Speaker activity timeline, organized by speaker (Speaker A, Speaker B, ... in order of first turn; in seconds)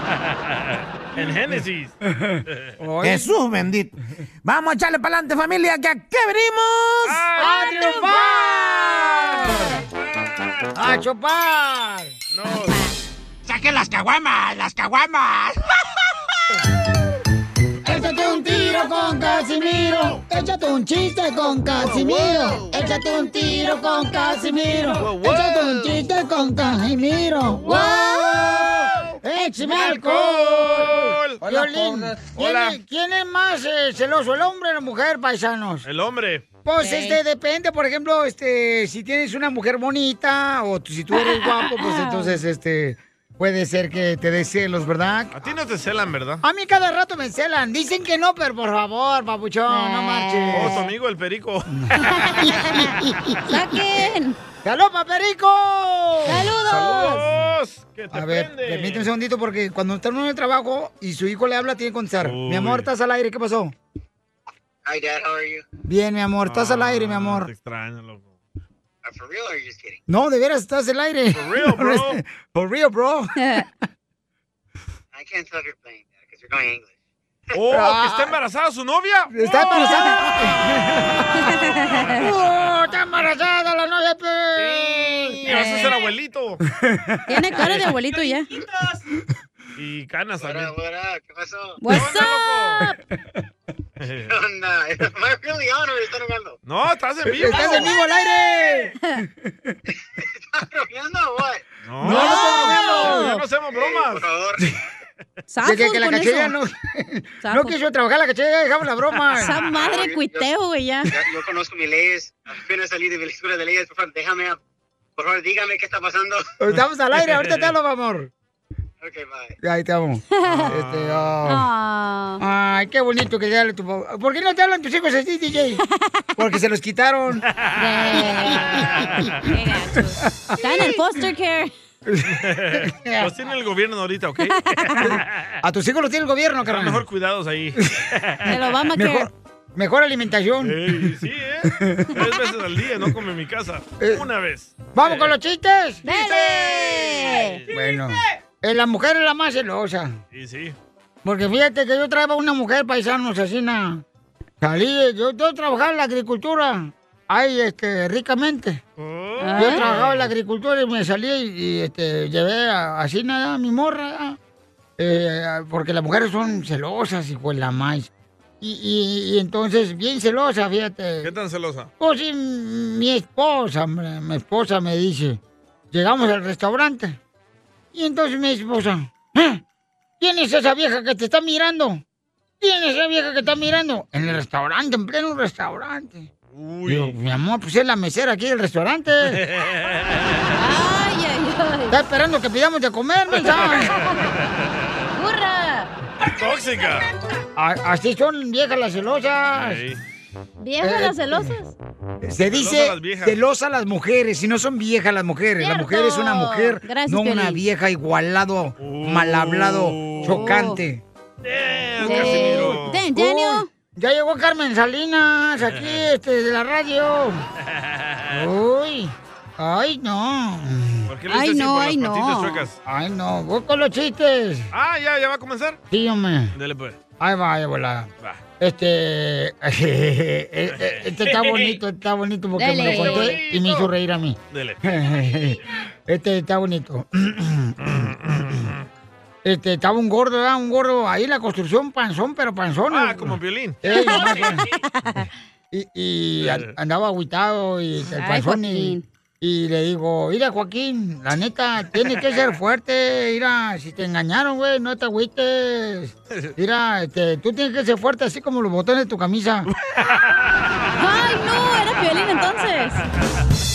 Speaker A: 0.7-1.9, 7.1-7.5, 12.3-12.8, 21.8-22.6, 25.0-26.0, 29.8-31.4, 32.4-32.8, 35.9-36.5, 45.3-46.4, 50.5-51.7, 56.7-59.1, 62.2-62.9, 66.5-68.3, 71.3-72.2, 77.5-79.5, 84.6-86.6, 89.8-90.8, 91.9-92.9, 94.0-94.3, 96.6-98.0, 101.8-104.3, 117.2-117.6, 120.5-121.3, 127.5-128.2, 128.9-129.3, 132.3-135.6, 136.7-138.6, 140.6-145.3, 146.1-147.7, 150.3-150.8, 159.0-160.3, 171.2-171.9, 186.5-187.2, 189.3-190.5, 196.2-197.1, 199.6-200.0, 202.5-203.4, 208.8-210.7, 211.4-213.1, 215.7-216.1, 217.7-218.4, 221.1-222.8, 224.7-225.8, 226.6-227.0, 230.7-231.8, 232.8-233.9, 234.5-234.8, 237.8-238.9, 242.9-244.1, 246.4-246.7, 259.8-260.9
Speaker B: 2.1-3.3, 7.4-9.8, 10.8-12.1, 17.8-35.9, 36.6-45.3, 46.4-50.8, 51.7-53.1, 54.6-56.8, 58.1-63.7, 65.9-67.5, 70.1-73.3, 77.7-78.3, 79.3-85.8, 86.8-87.2, 97.3-99.3, 102.0-103.3, 105.6-109.7, 116.6-118.3, 119.6-121.7, 122.4-125.8, 126.4-127.5, 128.2-128.7, 130.5-130.9, 132.1-133.3, 135.0-137.0, 138.9-141.0, 141.8-142.2, 144.0-144.2, 144.9-146.1, 147.7-150.2, 151.2-154.0, 154.6-158.8, 159.6-164.4, 165.0-168.1, 168.6-171.3, 172.0-175.4, 175.9-177.2, 177.9-179.6, 180.2-182.0, 182.6-186.3, 186.9-189.4, 191.9-193.9, 197.6-199.8, 200.8-201.6, 202.2-211.0, 212.0-217.4, 218.3-221.1, 222.8-224.7, 225.9-226.6, 227.2-238.6, 239.4-244.7, 245.7-259.7
Speaker C: 3.0-3.9, 4.5-7.2, 13.5-15.5
Speaker D: 7.3-9.2, 27.6-28.4, 29.3-30.0, 36.8-37.2, 41.1-42.4, 49.7-50.9, 52.1-52.9, 53.5-54.4, 56.2-57.3, 73.4-73.7, 79.5-80.3, 81.5-82.2, 85.5-86.0, 87.3-88.5, 91.8-93.0, 102.0-103.4, 105.5-106.5, 107.4-107.8, 109.3-111.2, 120.4-120.7, 121.5-122.4, 127.8-131.7, 134.4-135.0, 138.5-139.3, 146.0-147.6, 159.4-159.9, 190.6-192.0, 193.5-194.1, 195.2-195.9, 200.6-201.8, 205.6-207.6, 210.2-210.8, 212.0-213.7, 221.3-222.7, 232.6-233.4, 243.8-245.2, 248.1-249.1, 261.0-263.0
Speaker E: 64.9-65.7, 69.0-70.0, 75.1-76.9, 90.4-91.8, 94.3-96.6, 100.2-101.6, 103.7-104.6, 109.7-110.5, 111.1-114.6, 115.2-116.5, 119.0-119.6